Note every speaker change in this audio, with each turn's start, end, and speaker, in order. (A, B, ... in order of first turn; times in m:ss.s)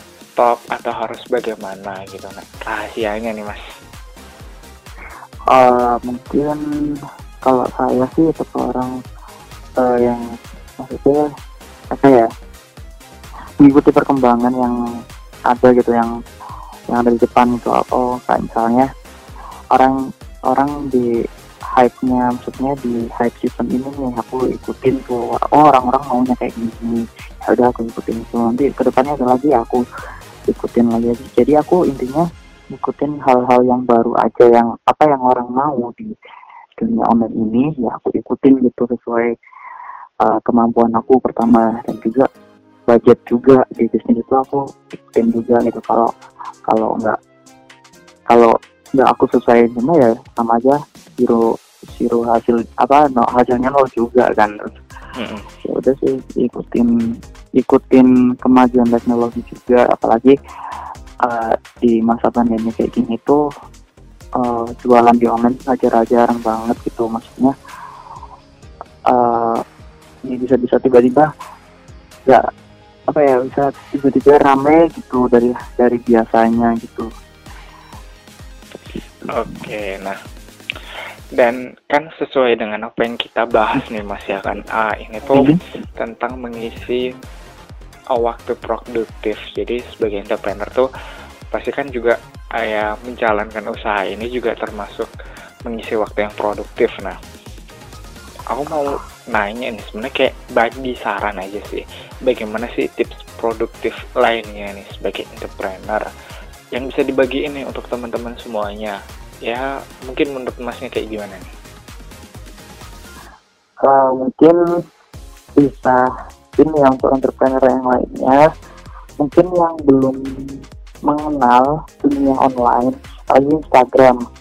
0:00.4-0:03.6 A
0:05.5-0:06.6 B
0:07.4-0:08.9 B
0:09.8-0:10.2 B
0:10.8-0:11.2 B
0:11.9-0:12.3 B
0:13.6-0:14.8 B
0:15.5-0:16.1 B
0:16.9-0:18.9 B
0:19.7-0:20.0 B
0:20.5-0:21.1 B
0:21.8-0:29.8 B
0:30.5-0:36.1 B
0:36.8-0:39.3 B
0:40.2-0:42.2 B
0:42.9-0:46.1 B
0:46.7-0:47.2 B
0:48.3-0:51.4 B
0:51.9-0:54.6 B
0:55.2-0:55.4 A
0:55.6-0:56.9 B
0:57.6-1:00.3 B
1:01.2-1:03.4 B
1:04.4-1:07.5 B
1:09.1-1:09.6 B
1:10.3-1:11.3 B
1:13.1-1:17.1 B
1:19.3-1:20.2 A
1:21.4-1:27.0 A
1:28.1-1:30.8 A
1:31.5-1:35.1 A
1:35.7-1:37.2 A
1:38.5-1:46.0 A
1:46.7-1:49.0 A
1:49.5-1:51.5 A
1:53.8-1:54.6 B
1:55.6-1:56.0 B
1:56.6-1:58.4 B
1:59.2-2:04.2 B